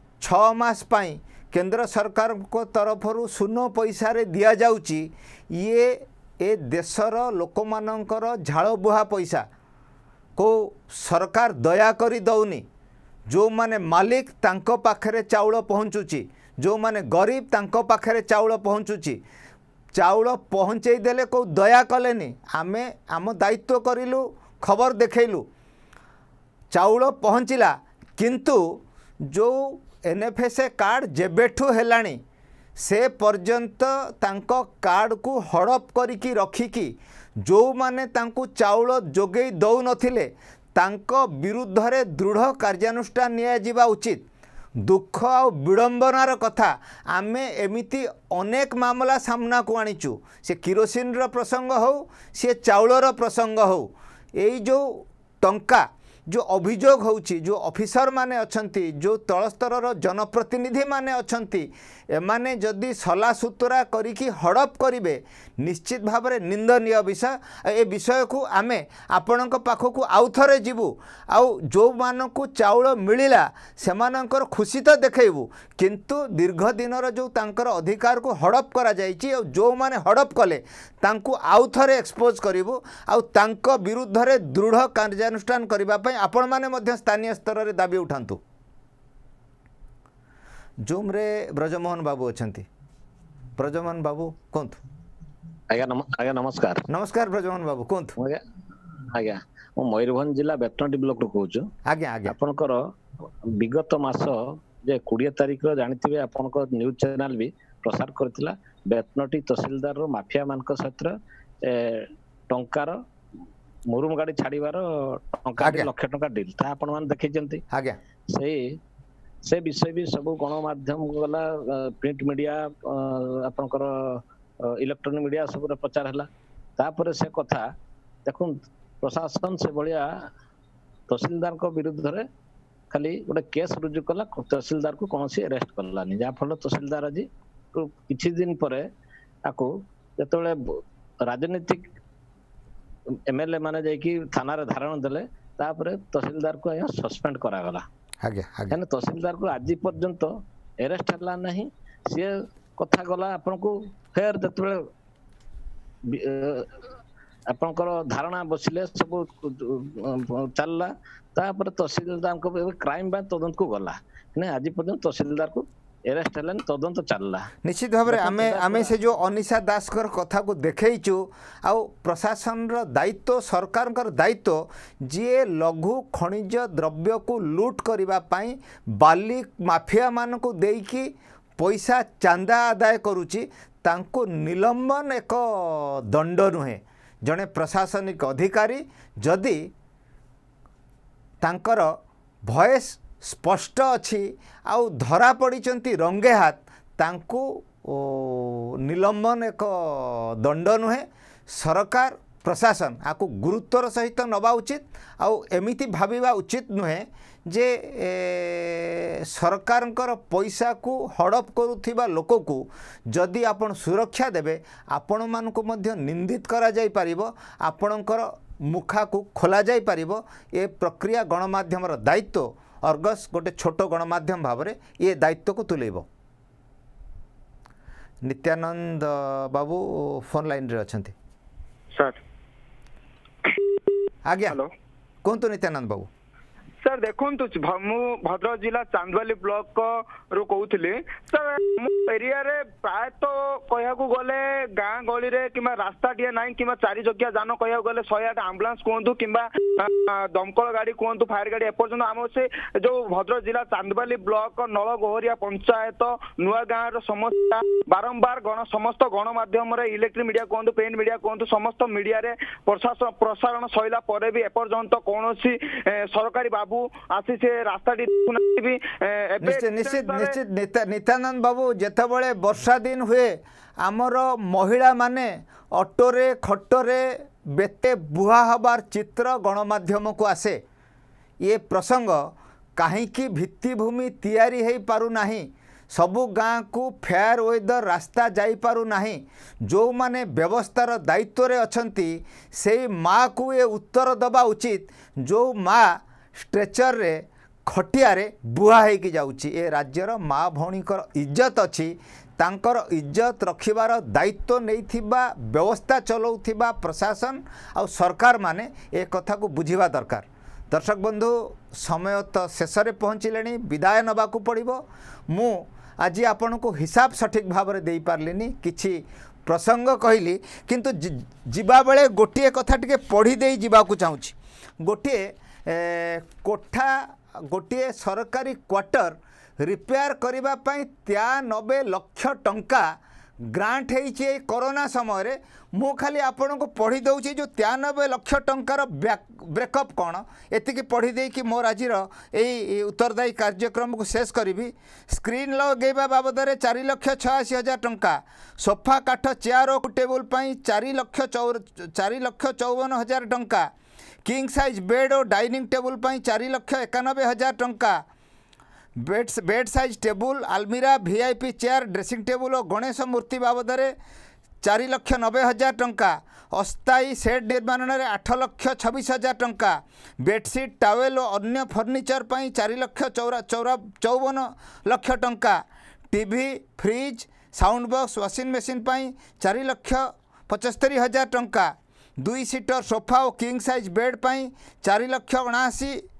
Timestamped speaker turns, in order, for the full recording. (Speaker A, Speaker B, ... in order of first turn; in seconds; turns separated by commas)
Speaker A: 0.2-9.5, Speaker A: 10.4-12.7, Speaker A: 13.3-19.2, Speaker A: 19.9-25.5, Speaker A: 26.7-32.2, Speaker A: 32.8-44.2, Speaker A: 44.8-88.4, Speaker A: 90.8-92.7, Speaker A: 93.6-94.8, Speaker B: 95.7-96.8, Speaker A: 96.9-98.1, Speaker B: 99.2-101.7, Speaker A: 101.9-102.3, Speaker B: 102.3-102.9, Speaker B: 103.6-113.0, Speaker B: 113.9-117.6, Speaker A: 115.6-115.9, Speaker A: 117.7-118.0, Speaker B: 118.3-118.8, Speaker B: 119.5-127.7, Speaker B: 128.3-130.2, Speaker B: 131.1-132.3, Speaker B: 132.9-138.9, Speaker B: 139.5-140.6, Speaker B: 141.3-141.9, Speaker B: 143.3-147.8, Speaker A: 148.2-148.8, Speaker B: 148.7-154.8, Speaker B: 156.1-156.7, Speaker B: 157.5-167.5, Speaker A: 167.6-189.7, Speaker B: 168.1-169.0, Speaker A: 191.4-191.9, Speaker A: 192.5-226.1, Speaker A: 228.2-231.2, Speaker A: 234.3-234.6, Speaker A: 235.2-236.1, Speaker C: 236.8-270.3, Speaker A: 269.4-280.6, Speaker A: 281.4-353.7, Speaker A: 354.2-358.0, Speaker A: 359.0-363.9, Speaker A: 364.6-386.1